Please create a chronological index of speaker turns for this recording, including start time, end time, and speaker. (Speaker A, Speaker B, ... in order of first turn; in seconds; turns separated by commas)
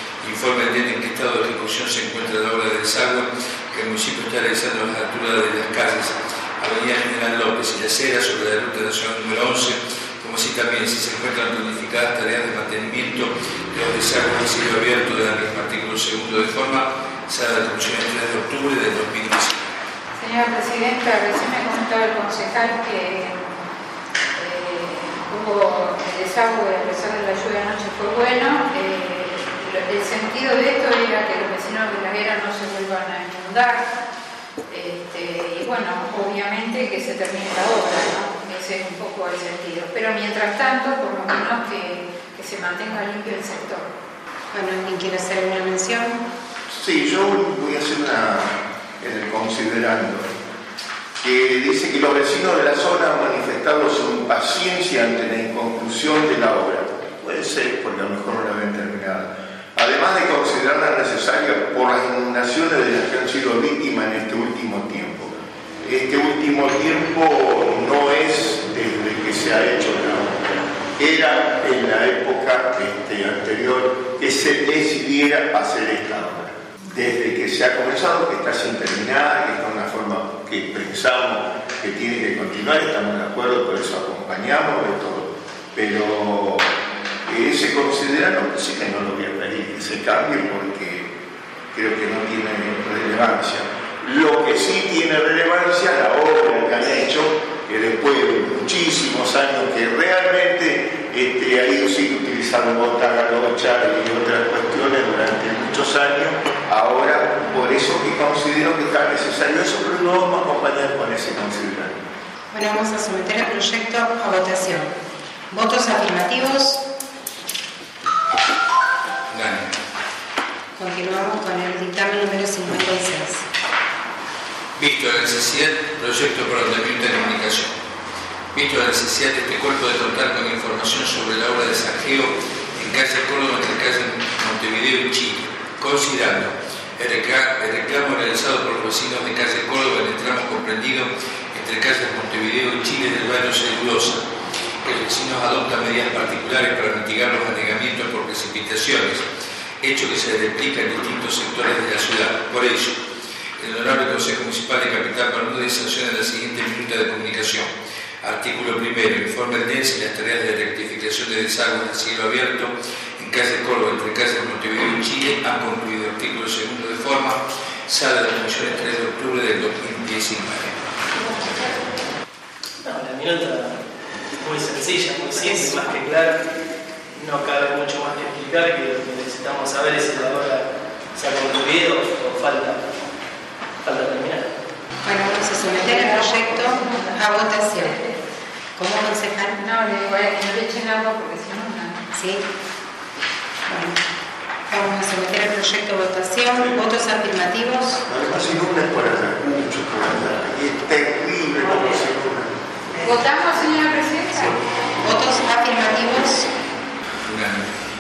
Speaker A: 0.2-19.7, Speaker B: 20.2-23.5, Speaker B: 24.4-33.9, Speaker B: 34.7-43.9, Speaker C: 44.5-46.2, Speaker D: 46.7-50.3, Speaker D: 51.2-65.3, Speaker D: 65.8-86.7, Speaker D: 87.3-91.1, Speaker D: 91.7-112.0, Speaker C: 112.5-114.9, Speaker C: 115.5-116.8, Speaker A: 119.3-119.8, Speaker C: 120.8-123.5, Speaker A: 124.8-127.7, Speaker A: 128.5-144.2, Speaker A: 144.8-149.3, Speaker A: 149.8-153.0, Speaker A: 153.6-170.8, Speaker B: 171.1-171.9, Speaker E: 172.8-173.8, Speaker E: 174.4-176.4, Speaker E: 177.2-182.9, Speaker E: 183.8-184.5, Speaker C: 185.0-188.0, Speaker B: 185.7-188.2, Speaker C: 188.8-189.6, Speaker B: 189.6-192.0, Speaker C: 192.1-192.5, Speaker C: 193.7-194.0, Speaker C: 194.7-198.0, Speaker D: 198.1-203.1, Speaker B: 203.0-204.6, Speaker C: 205.0-206.5, Speaker A: 207.2-207.7